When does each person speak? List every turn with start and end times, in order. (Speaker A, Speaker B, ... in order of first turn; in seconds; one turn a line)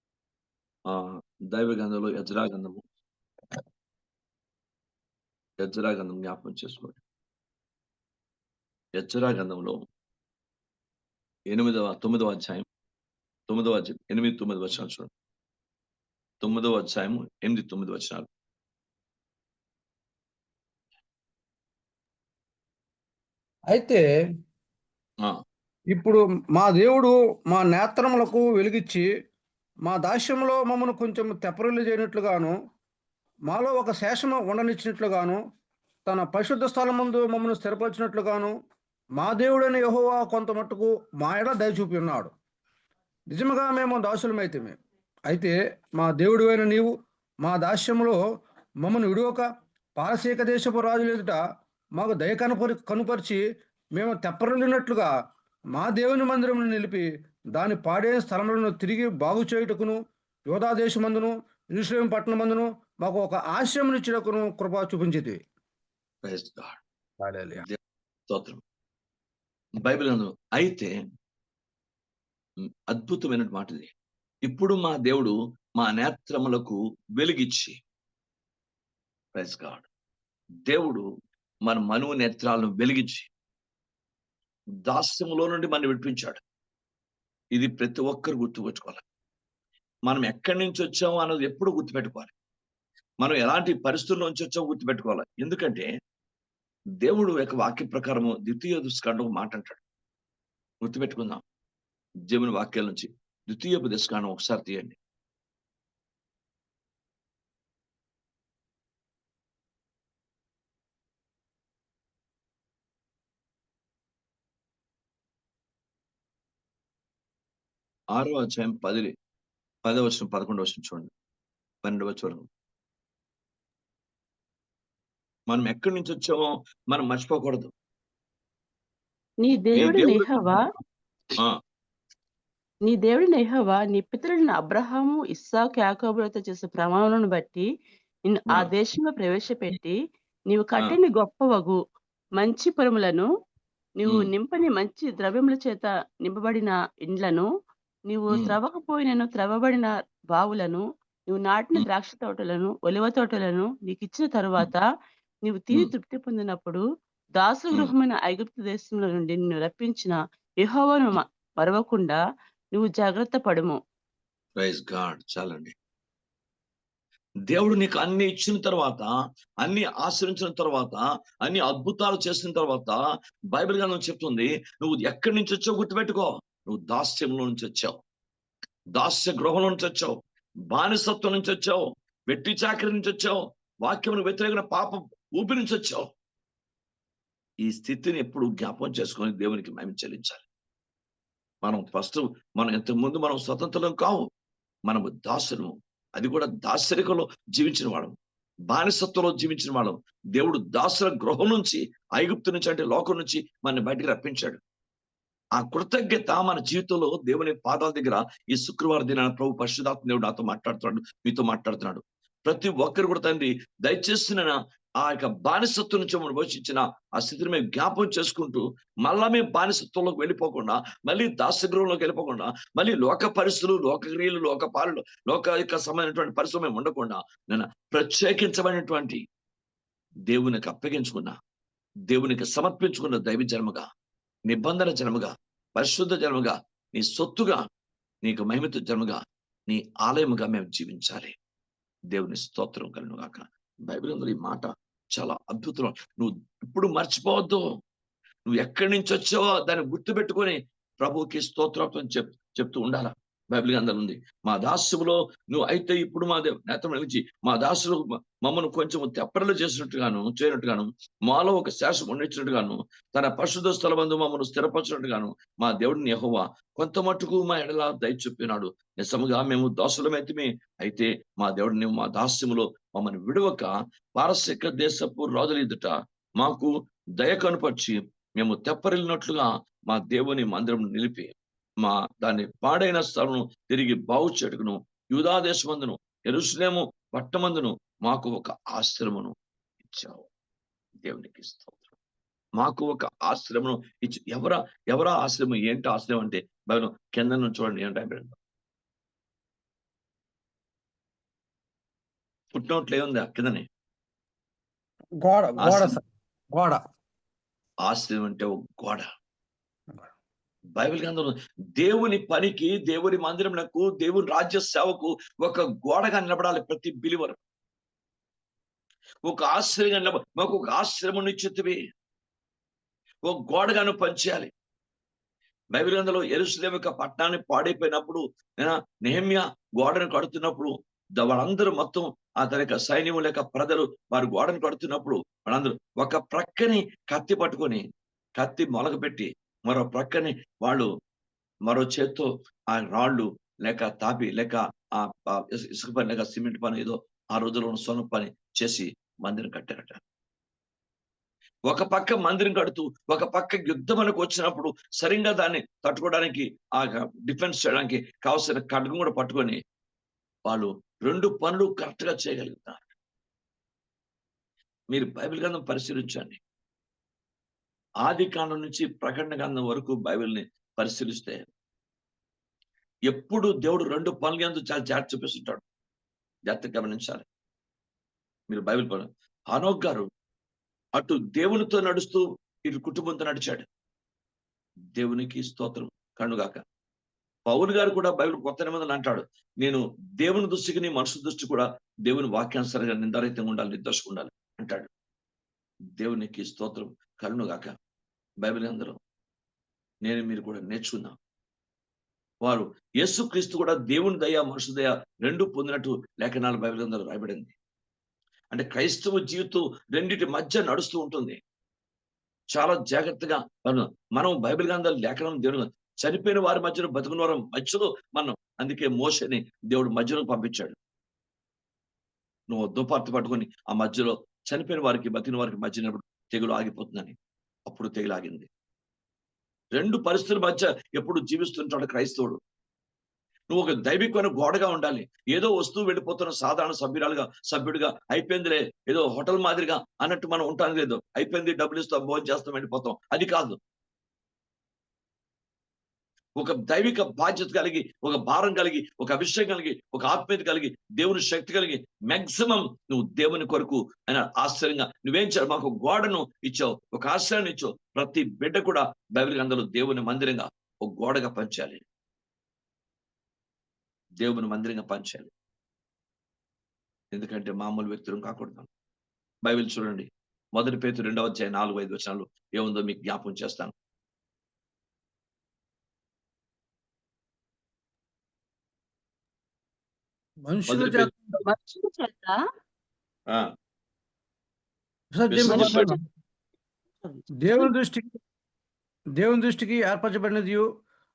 Speaker A: 0.9-2.8
Speaker A: 5.6-7.0
Speaker A: 9.0-9.8
Speaker A: 11.5-12.6
Speaker A: 13.5-15.1
Speaker A: 16.4-18.3
Speaker B: 23.7-24.0
Speaker B: 25.9-29.1
Speaker B: 29.9-32.5
Speaker B: 33.5-35.4
Speaker B: 36.0-38.5
Speaker B: 39.2-42.3
Speaker B: 43.3-44.8
Speaker B: 45.3-46.9
Speaker B: 47.4-48.2
Speaker B: 48.8-49.4
Speaker B: 50.0-51.4
Speaker B: 52.0-53.4
Speaker B: 54.0-55.1
Speaker B: 55.8-60.0
Speaker B: 60.5-65.4
Speaker A: 66.2-66.8
Speaker B: 67.2-67.6
Speaker A: 68.3-68.6
Speaker A: 69.8-70.9
Speaker A: 72.9-73.9
Speaker A: 74.5-77.8
Speaker A: 79.3-79.9
Speaker A: 80.7-81.0
Speaker A: 81.7-83.3
Speaker A: 84.9-86.4
Speaker A: 87.5-89.0
Speaker A: 90.0-92.3
Speaker A: 93.2-95.9
Speaker A: 97.0-99.8
Speaker A: 100.8-101.4
Speaker A: 102.3-105.0
Speaker A: 118.1-119.1
Speaker A: 119.8-121.1
Speaker A: 121.8-122.5
Speaker A: 125.5-127.7
Speaker C: 129.4-130.6
Speaker A: 129.8-130.5
Speaker C: 132.9-137.6
Speaker C: 138.3-139.9
Speaker C: 140.5-141.8
Speaker C: 142.4-143.3
Speaker C: 144.0-147.4
Speaker C: 148.1-154.8
Speaker C: 155.4-156.8
Speaker C: 157.4-162.2
Speaker C: 162.7-163.8
Speaker A: 164.6-165.7
Speaker A: 167.5-169.1
Speaker A: 169.6-173.0
Speaker A: 173.5-178.0
Speaker A: 178.9-180.2
Speaker A: 180.7-186.1
Speaker A: 187.6-190.4
Speaker A: 191.6-194.2
Speaker A: 194.9-198.1
Speaker A: 198.7-204.6
Speaker A: 205.6-229.2
Speaker A: 230.3-231.3
Speaker A: 232.1-233.8
Speaker A: 234.5-237.6
Speaker A: 238.2-241.3
Speaker A: 242.1-247.6
Speaker A: 248.5-290.3
Speaker A: 291.0-291.9
Speaker A: 292.6-298.4
Speaker A: 302.5-303.6
Speaker B: 305.2-306.0
Speaker A: 305.6-305.9
Speaker A: 307.8-309.1
Speaker A: 310.8-317.4
Speaker A: 319.2-321.8
Speaker A: 323.2-324.5
Speaker A: 325.7-337.8
Speaker A: 338.4-340.9
Speaker A: 341.6-350.0
Speaker A: 351.7-359.6
Speaker A: 360.5-362.9
Speaker A: 364.9-366.4
Speaker A: 368.0-371.4
Speaker A: 373.1-375.6
Speaker A: 376.5-377.2
Speaker A: 378.5-380.1
Speaker A: 380.9-383.6
Speaker A: 384.9-386.6
Speaker A: 387.5-394.9
Speaker A: 396.0-397.7
Speaker A: 398.4-398.9
Speaker A: 400.0-401.1
Speaker A: 402.4-407.5
Speaker A: 408.5-411.4
Speaker A: 412.5-420.8
Speaker A: 422.5-427.1
Speaker A: 427.7-428.5
Speaker A: 429.8-432.4
Speaker A: 433.5-443.6
Speaker A: 446.4-461.8
Speaker A: 464.2-465.3
Speaker A: 467.1-468.7
Speaker A: 469.4-473.7
Speaker B: 480.5-481.4
Speaker A: 480.7-481.1
Speaker C: 481.4-482.4
Speaker B: 485.1-486.0
Speaker A: 485.3-485.9
Speaker C: 485.4-485.9
Speaker C: 487.0-487.7
Speaker B: 487.4-488.1
Speaker B: 489.2-490.6